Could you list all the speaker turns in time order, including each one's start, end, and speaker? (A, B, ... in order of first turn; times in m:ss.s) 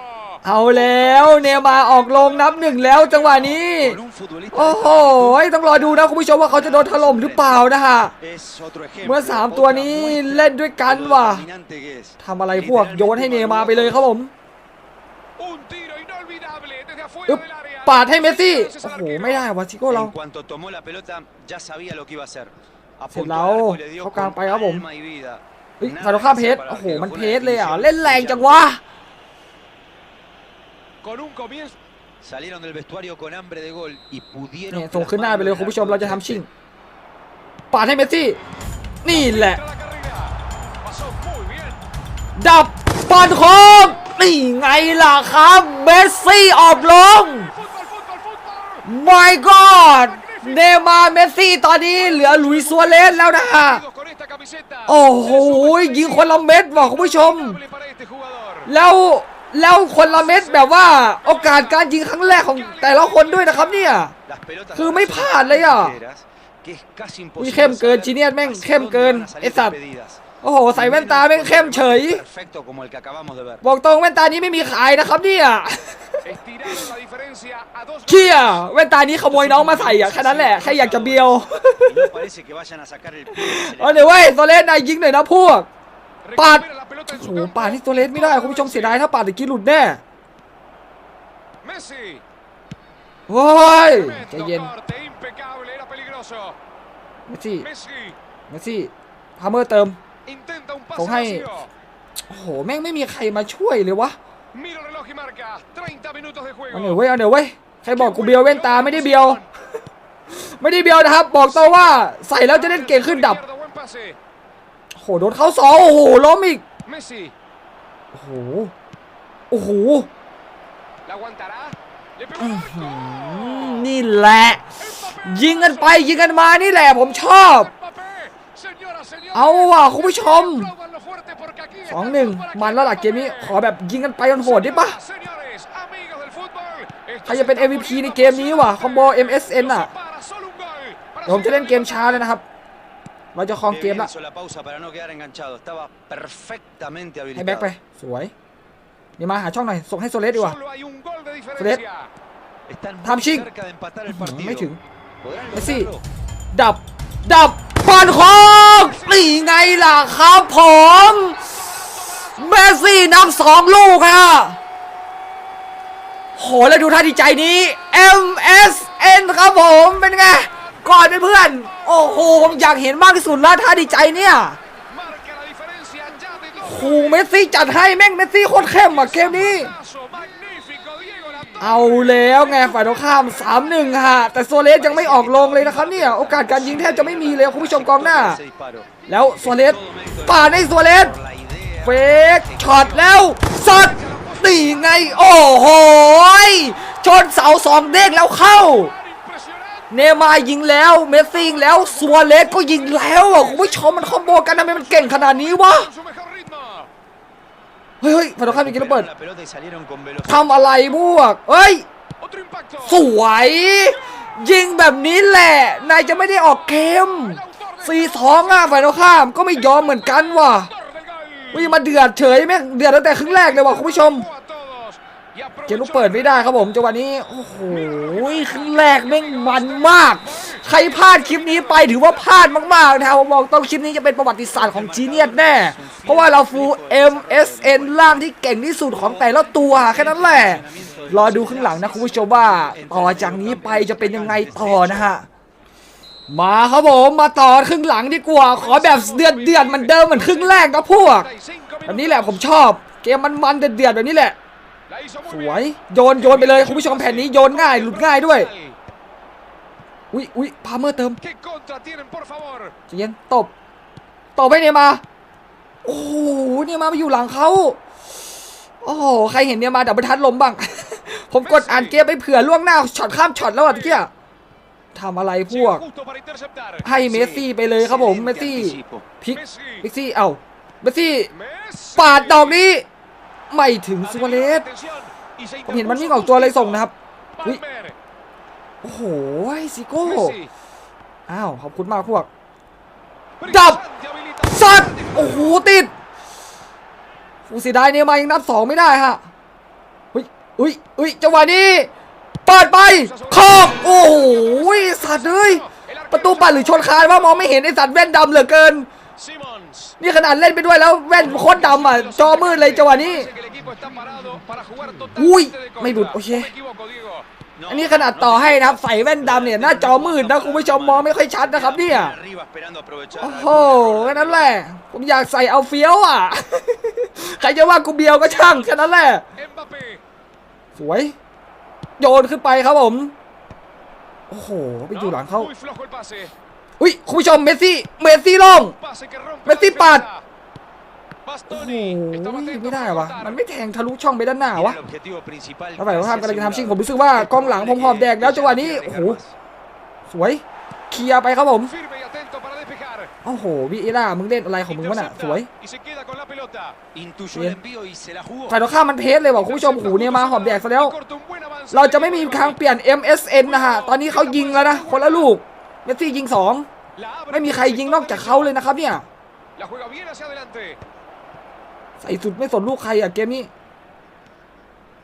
0:00.4-0:04.0 A
0:03.6-0:05.4 B
0:04.5-0:08.1 A
0:06.5-0:07.6 B
0:08.2-0:14.0 B
0:09.0-0:11.4 A
0:12.2-0:14.3 A
0:15.4-0:19.4 C
0:17.3-0:20.1 A
0:19.9-0:28.6 B
0:23.1-0:24.8 A
0:25.8-0:28.8 A
0:31.0-0:31.7 C
0:32.2-0:36.4 B
0:34.7-0:36.5 A
0:37.7-0:38.4 A
0:39.0-0:39.6 A
0:39.1-0:41.8 C
0:42.4-0:47.5 A
0:47.7-0:48.8 C
0:48.8-0:53.8 A
0:50.2-0:50.6 C
0:52.1-0:56.3 C
0:54.8-0:57.6 A
0:56.8-0:58.7 C
0:58.6-1:04.1 A
1:00.0-1:01.8 C
1:02.6-1:03.7 C
1:04.2-1:10.2 B
1:04.7-1:06.0 A
1:07.4-1:09.8 A
1:10.4-1:12.2 A
1:10.7-1:13.6 B
1:13.6-1:16.8 A
1:16.2-1:18.6 C
1:18.0-1:22.2 A
1:19.5-1:21.2 B
1:21.9-1:24.0 B
1:23.3-1:25.7 A
1:26.3-1:29.0 C
1:26.4-1:30.0 A
1:31.6-1:32.2 C
1:33.3-1:34.7 A
1:33.9-1:36.5 C
1:37.3-1:37.7 A
1:37.6-1:38.1 C
1:38.5-1:40.0 A
1:40.3-1:41.7 C
1:40.9-1:41.5 A
1:42.3-1:44.1 A
1:44.5-1:47.0 C
1:46.7-1:49.4 A
1:47.9-1:49.4 C
1:50.3-1:53.4 A
1:52.5-1:54.2 C
1:54.9-1:56.6 A
1:56.9-1:57.3 C
1:58.1-1:58.7 A
1:59.5-2:00.1 A
2:01.1-2:03.6 C
2:02.4-2:07.7 A
2:04.8-2:06.1 C
2:08.0-2:13.5 C
2:09.3-2:10.7 A
2:11.9-2:15.0 A
2:14.4-2:22.2 C
2:17.2-2:19.9 A
2:21.2-2:22.4 A
2:23.3-2:24.1 A
2:23.7-2:27.7 B
2:27.3-2:28.3 A
2:29.2-2:30.6 A
2:30.3-2:32.1 C
2:31.6-2:31.8 A
2:32.7-2:34.7 B
2:33.0-2:33.5 A
2:34.1-2:34.8 A
2:35.2-2:36.0 B
2:35.5-2:35.9 A
2:36.5-2:41.4 A
2:38.8-2:39.3 C
2:41.8-2:42.3 C
2:42.2-2:44.6 A
2:46.3-2:54.6 A
2:54.9-2:57.2 C
2:56.6-2:59.7 A
2:58.7-3:01.7 C
3:01.6-3:08.4 A
3:05.9-3:08.9 B
3:09.1-3:11.2 A
3:09.5-3:12.9 B
3:11.8-3:18.9 A
3:18.8-3:19.9 C
3:19.9-3:25.9 A
3:21.4-3:26.9 C
3:28.0-3:29.1 A
3:28.4-3:30.4 B
3:30.2-3:31.8 A
3:32.2-3:33.0 C
3:32.8-3:40.7 A
3:37.3-3:38.5 C
3:40.9-3:41.7 C
3:41.5-3:44.3 A
3:43.3-3:46.4 C
3:45.7-4:05.3 A
3:47.9-3:50.6 C
3:51.3-3:51.9 C
3:54.5-3:58.1 B
3:59.2-4:05.1 B
4:06.3-4:11.3 A
4:08.6-4:10.6 C
4:11.2-4:12.4 C
4:11.8-4:14.4 A
4:14.9-4:15.6 C
4:15.3-4:18.5 A
4:16.2-4:18.7 C
4:20.1-4:21.2 A
4:21.2-4:22.7 C
4:22.9-4:23.5 A
4:24.4-4:25.0 A
4:25.8-4:27.8 A
4:28.8-4:34.1 A
4:31.4-4:31.9 C
4:34.9-4:35.8 A
4:35.5-4:36.8 C
4:36.8-4:41.3 A
4:37.0-4:39.1 B
4:39.3-4:39.8 C
4:41.3-4:42.6 C
4:42.0-4:42.8 A
4:43.5-4:44.6 A
4:44.1-4:46.8 C
4:45.6-4:47.6 A
4:47.4-4:47.9 C
4:48.8-4:50.4 A
4:50.0-4:50.5 C
4:51.3-4:52.3 A
4:53.4-4:55.5 C
4:53.4-4:53.8 A
4:54.4-4:55.9 A
4:57.5-4:59.2 A
5:00.1-5:01.9 A
5:02.4-5:08.9 A
5:03.0-5:07.1 C
5:09.2-5:09.9 C
5:10.0-5:13.3 A
5:11.2-5:17.2 C
5:15.2-5:16.5 A
5:17.6-5:24.4 B
5:17.7-5:22.2 A
5:23.2-5:29.2 A
5:29.4-5:30.0 C
5:30.7-5:31.2 A
5:32.0-5:33.1 A
5:34.3-5:35.5 A
5:34.9-5:36.3 C
5:36.8-5:38.7 A
5:38.8-5:40.2 C
5:39.4-5:40.0 A
5:41.2-5:43.4 C
5:41.5-5:44.8 A
5:44.6-5:49.3 B
5:45.8-5:49.2 A
5:50.1-5:51.7 A
5:51.8-5:53.1 C
5:53.2-5:55.5 A
5:54.7-5:56.8 C
5:56.9-5:58.6 B
5:58.5-6:01.0 A
5:59.4-6:02.6 C
6:01.7-6:06.7 A
6:03.4-6:05.3 C
6:07.0-6:08.5 C
6:07.3-6:09.0 A
6:09.6-6:10.8 C
6:12.0-6:13.5 A